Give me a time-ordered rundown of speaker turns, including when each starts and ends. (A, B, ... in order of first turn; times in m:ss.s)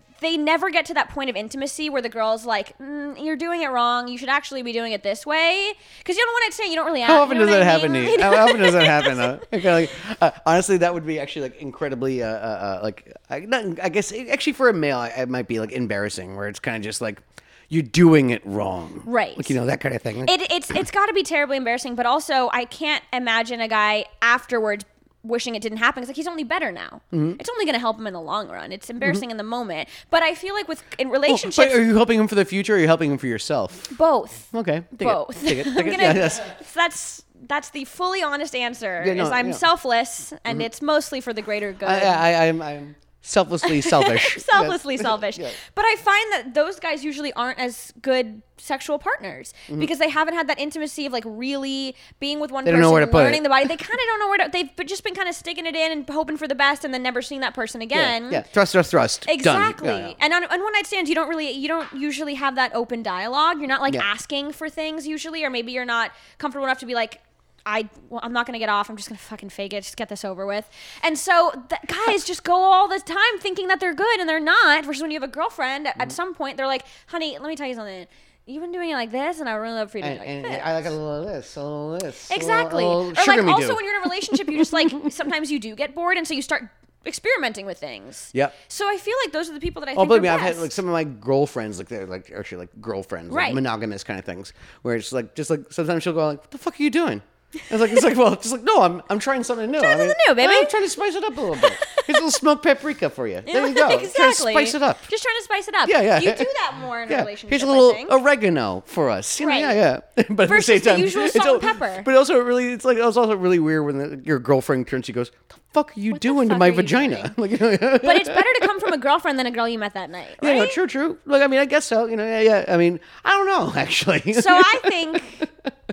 0:00.2-0:09.4 A
0:07.0-0:20.4 B
0:19.1-0:19.6 A
0:20.2-0:31.8 A
0:27.1-0:27.4 B
0:31.3-0:33.9 B
0:33.9-0:42.3 A
0:34.5-0:36.6 B
0:39.0-0:39.6 B
0:41.8-0:45.6 B
0:43.7-0:58.4 A
0:52.6-0:53.7 B
0:57.9-1:00.2 B
0:59.3-1:20.9 A
1:20.0-1:25.1 B
1:22.3-1:30.7 A
1:30.0-1:45.1 B
1:33.3-1:33.6 A
1:39.8-1:40.8 A
1:41.6-1:42.1 A
1:43.5-1:48.2 A
1:45.8-1:46.5 B
1:47.1-1:58.9 B
1:49.4-1:49.8 A
1:50.4-1:52.1 A
1:56.1-1:57.3 A
1:58.0-2:00.8 A
2:00.4-2:05.7 B
2:04.3-2:05.4 A